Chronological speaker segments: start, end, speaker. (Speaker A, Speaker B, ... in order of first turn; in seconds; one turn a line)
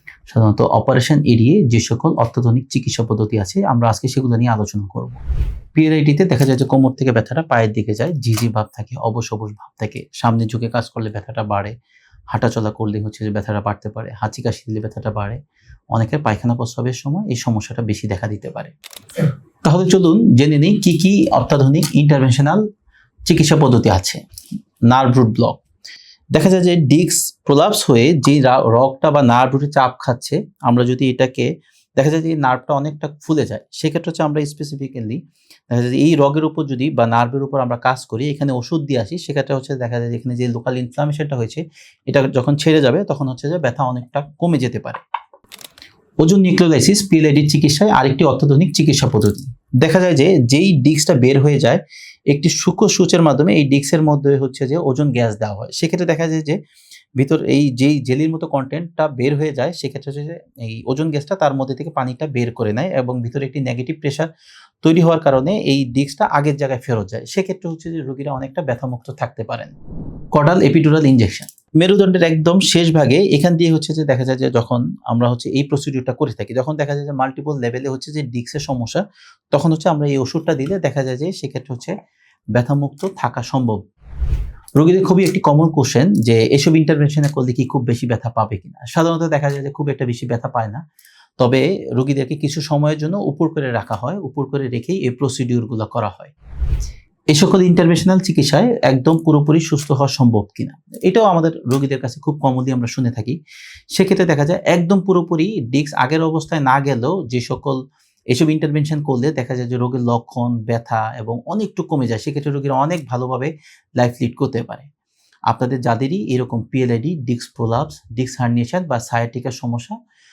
Speaker A: 0.3-5.2
Speaker A: 5.7-11.7
Speaker A: 12.3-15.4
Speaker A: 15.9-22.6
Speaker A: 23.2-24.2
Speaker A: 24.9-25.6
Speaker A: 26.3-45.0
Speaker A: 46.2-56.6
Speaker A: 57.2-64.3
Speaker A: 64.8-69.7
Speaker A: 70.3-81.9
Speaker A: 82.5-83.8
Speaker A: 84.8-90.8
Speaker A: 91.4-96.3
Speaker A: 97.3-103.4
Speaker A: 103.9-107.8
Speaker A: 108.3-114.9
Speaker A: 115.5-120.0